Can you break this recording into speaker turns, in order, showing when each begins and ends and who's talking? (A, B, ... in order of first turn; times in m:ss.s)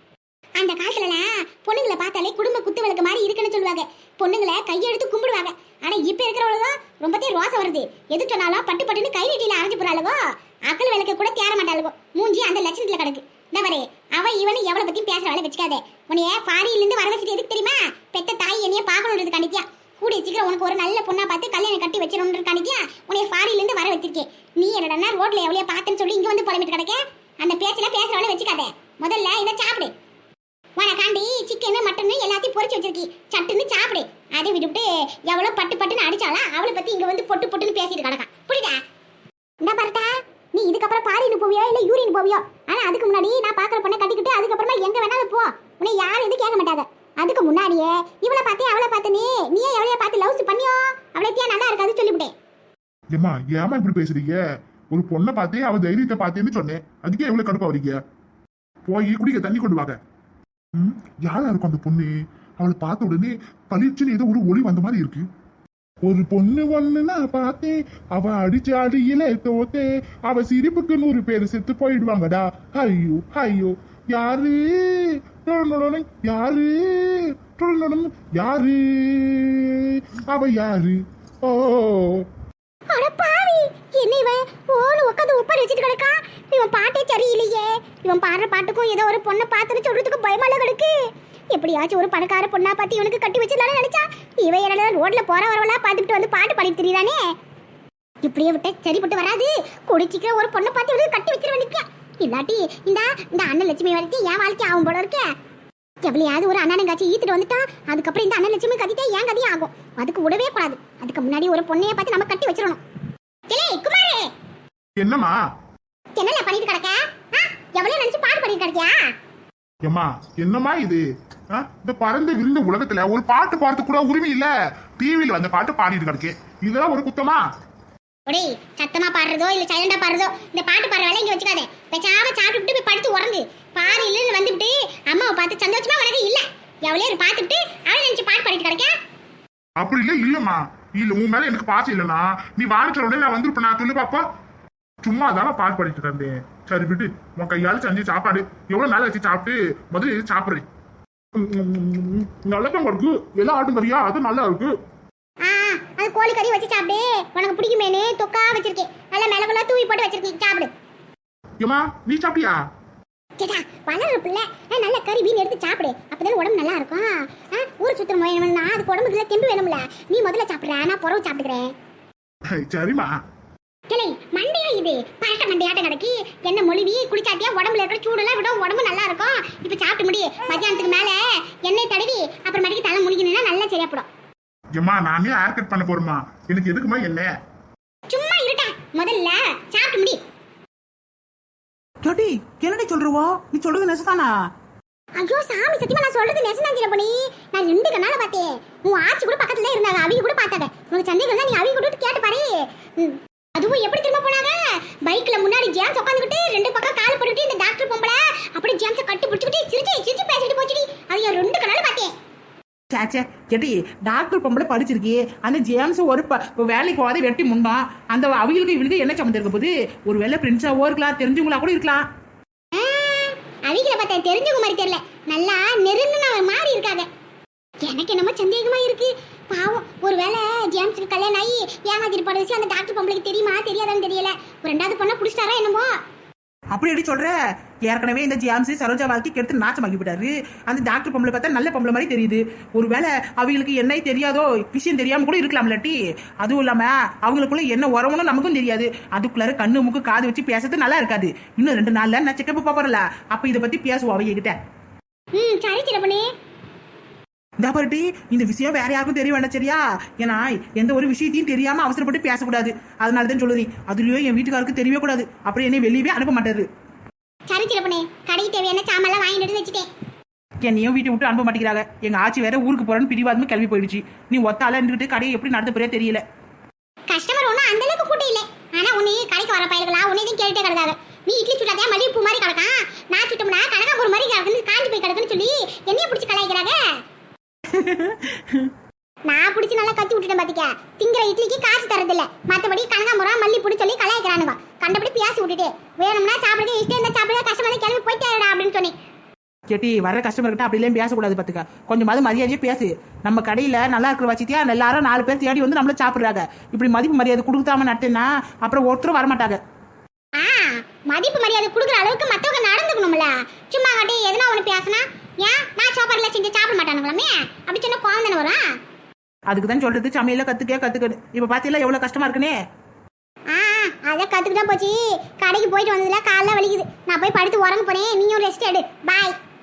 0:00.6-0:29.9 A
0:30.8-0:38.8 A
0:39.6-0:52.3 A
0:53.1-0:54.4 B
0:54.9-0:58.0 B
0:58.8-1:00.0 B
1:00.8-1:05.2 B
1:06.0-1:22.2 B
1:22.9-1:30.9 A
1:31.5-1:37.2 A
1:38.2-1:45.2 A
1:46.0-1:52.8 A
1:53.5-1:54.3 A
1:55.0-1:55.3 B
1:56.2-1:59.1 A
1:59.8-2:07.4 B
2:08.3-2:18.9 A
2:19.8-2:24.2 B
2:25.0-2:30.6 B
2:31.4-2:34.7 B
2:35.4-2:40.7 A
2:41.6-2:42.5 B
2:43.4-2:51.7 A
2:52.5-2:53.1 B
2:53.9-3:04.0 A
3:04.7-3:07.3 B
3:08.1-3:10.2 A
3:12.0-3:14.3 C
3:15.2-3:32.1 A
3:32.9-3:42.0 C
3:42.7-3:47.1 A
3:47.8-3:55.9 A
3:56.7-3:57.3 C
3:57.8-4:14.6 C
4:15.3-4:16.3 A
4:17.6-4:26.7 C
4:27.5-4:29.9 A
4:30.6-4:36.2 C
4:37.1-4:46.8 A
4:47.7-4:48.7 C
4:49.3-4:58.9 A
4:59.7-5:09.6 C
5:10.4-5:18.6 A
5:19.5-5:22.6 C
5:23.5-5:29.4 A